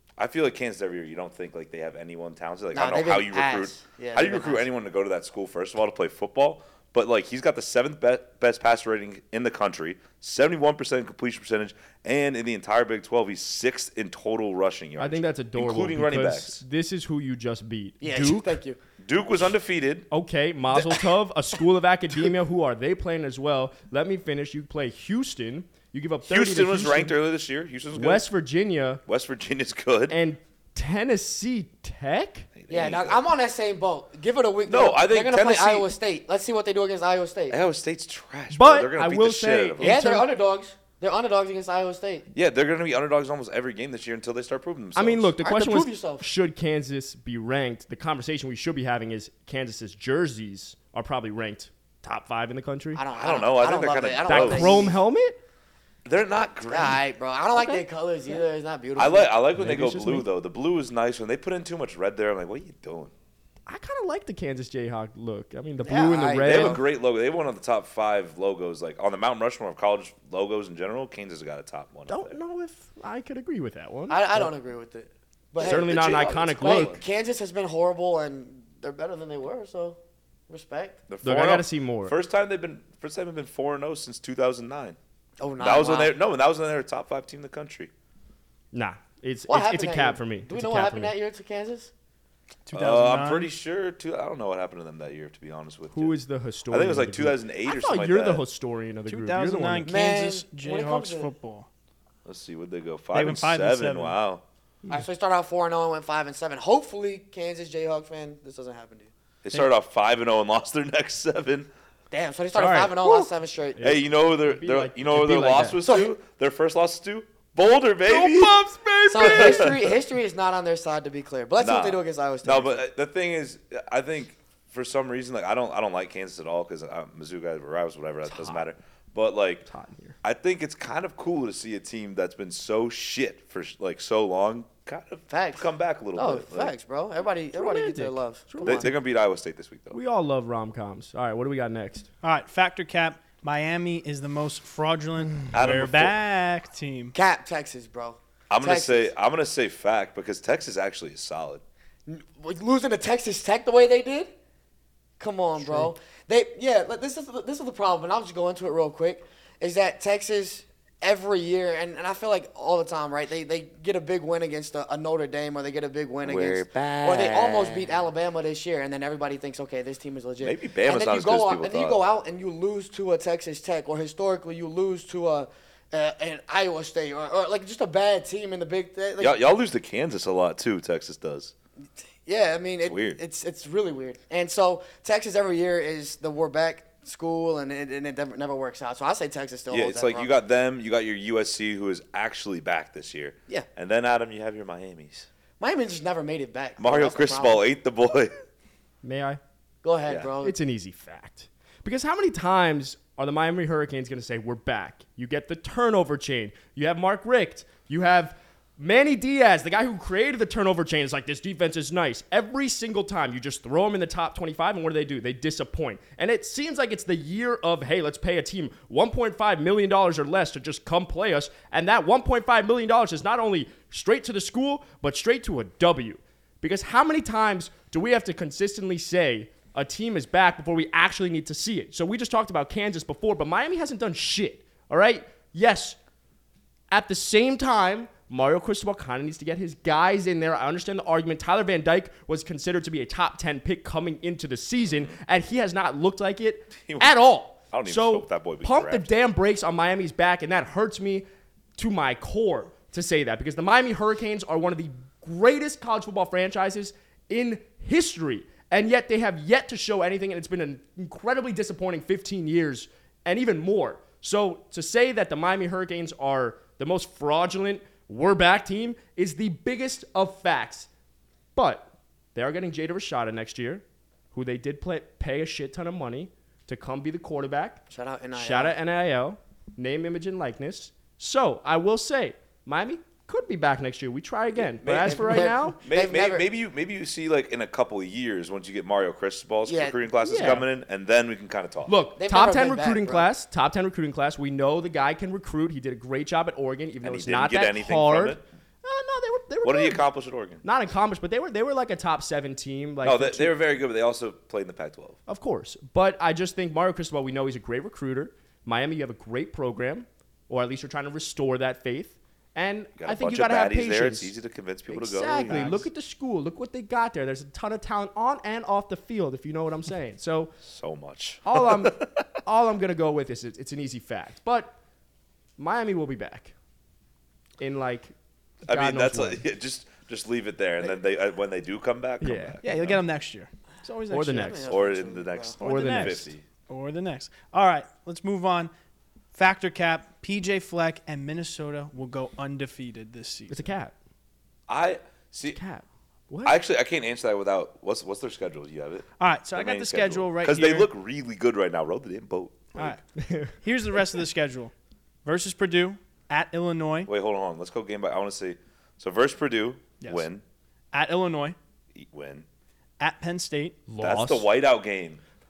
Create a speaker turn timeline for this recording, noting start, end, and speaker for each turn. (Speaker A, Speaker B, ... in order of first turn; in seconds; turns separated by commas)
Speaker A: 0.2-16.6, Speaker B: 2.7-4.7, Speaker C: 15.0-18.6, Speaker B: 18.0-18.8, Speaker A: 19.0-20.1, Speaker C: 20.1-27.1, Speaker A: 20.7-21.0, Speaker A: 26.2-28.3, Speaker C: 27.9-29.0, Speaker A: 29.1-30.2, Speaker C: 30.1-32.5, Speaker A: 32.5-33.2, Speaker B: 32.7-37.6, Speaker A: 34.7-35.9, Speaker A: 37.5-40.0, Speaker C: 38.5-40.3, Speaker B: 39.8-42.3, Speaker A: 42.3-45.3, Speaker C: 45.0-53.0, Speaker B: 45.4-46.3, Speaker B: 53.0-55.0, Speaker A: 53.1-55.0, Speaker C: 54.2-55.4, Speaker A: 56.0-57.0, Speaker B: 56.7-59.4, Speaker C: 57.5-57.9, Speaker A: 59.0-63.1, Speaker C: 59.6-60.3, Speaker C: 63.7-66.8, Speaker B: 65.8-66.8, Speaker A: 66.4-72.4, Speaker C: 72.1-74.5, Speaker B: 74.1-80.0, Speaker C: 75.6-77.0, Speaker A: 75.6-77.0, Speaker B: 80.5-81.0, Speaker A: 81.1-85.0, Speaker C: 81.2-82.2, Speaker B: 85.4-86.1, Speaker A: 85.6-87.9, Speaker C: 88.7-91.1, Speaker B: 89.5-91.9, Speaker D: 92.7-93.5, Speaker A: 92.7-96.2, Speaker C: 95.9-100.0, Speaker A: 96.7-98.4, Speaker D: 99.1-101.7, Speaker B: 99.8-101.3, Speaker A: 102.3-104.4, Speaker D: 103.1-104.2, Speaker B: 104.9-109.1, Speaker A: 109.5-111.7, Speaker B: 112.1-113.9, Speaker C: 112.6-115.8, Speaker A: 113.8-120.0, Speaker B: 115.8-116.1, Speaker C: 118.0-119.8, Speaker B: 119.1-122.8, Speaker A: 121.6-129.7, Speaker C: 128.3-128.6, Speaker C: 129.7-130.2, Speaker A: 130.2-136.7, Speaker B: 135.3-138.9, Speaker C: 137.5-138.9, Speaker A: 138.7-140.0, Speaker C: 139.9-142.1, Speaker D: 142.2-147.2, Speaker A: 145.5-146.2, Speaker B: 147.2-149.1, Speaker A: 148.5-151.6, Speaker B: 152.1-154.3, Speaker B: 155.2-179.4, Speaker D: 155.6-155.9, Speaker A: 166.2-167.9, Speaker A: 170.4-172.0, Speaker A: 179.2-181.5, Speaker B: 182.2-190.3, Speaker A: 182.8-183.2, Speaker A: 189.7-195.3, Speaker B: 195.6-197.6, Speaker A: 196.8-198.4, Speaker C: 199.0-199.4, Speaker B: 199.8-200.6, Speaker A: 200.1-200.3, Speaker C: 200.4-236.0, Speaker C: 236.9-251.2, Speaker A: 244.9-245.2, Speaker A: 246.8-249.1, Speaker C: 251.8-270.9, Speaker C: 271.6-277.8, Speaker B: 277.9-278.8, Speaker C: 278.4-285.8, Speaker A: 284.6-291.9, Speaker B: 285.0-286.4, Speaker B: 289.7-290.6, Speaker C: 290.3-290.7, Speaker C: 291.9-300.0, Speaker B: 292.2-293.3, Speaker A: 297.0-298.4, Speaker A: 299.6-300.6, Speaker C: 300.6-303.6, Speaker A: 303.0-305.2, Speaker C: 305.3-314.3, Speaker A: 313.0-315.9, Speaker C: 314.9-320.6, Speaker D: 315.5-315.9, Speaker A: 320.6-322.3, Speaker C: 321.4-324.8, Speaker C: 325.6-326.5, Speaker C: 327.6-328.1, Speaker A: 328.7-333.0, Speaker C: 328.7-329.4, Speaker C: 332.2-332.6, Speaker D: 332.6-334.7, Speaker C: 334.1-334.6, Speaker B: 334.4-335.6, Speaker A: 334.7-336.4, Speaker D: 335.6-338.7, Speaker C: 335.6-336.3, Speaker D: 339.3-343.7, Speaker C: 343.5-343.9, Speaker A: 344.7-345.6, Speaker C: 345.5-346.6, Speaker A: 346.4-353.0, Speaker D: 349.2-350.9, Speaker C: 353.2-353.6, Speaker D: 353.6-354.7, Speaker D: 355.2-357.1, Speaker A: 357.1-360.4, Speaker D: 360.0-360.3, Speaker D: 360.9-361.6, Speaker A: 361.9-362.5, Speaker D: 363.0-363.8, Speaker C: 363.9-364.5, Speaker A: 364.0-365.2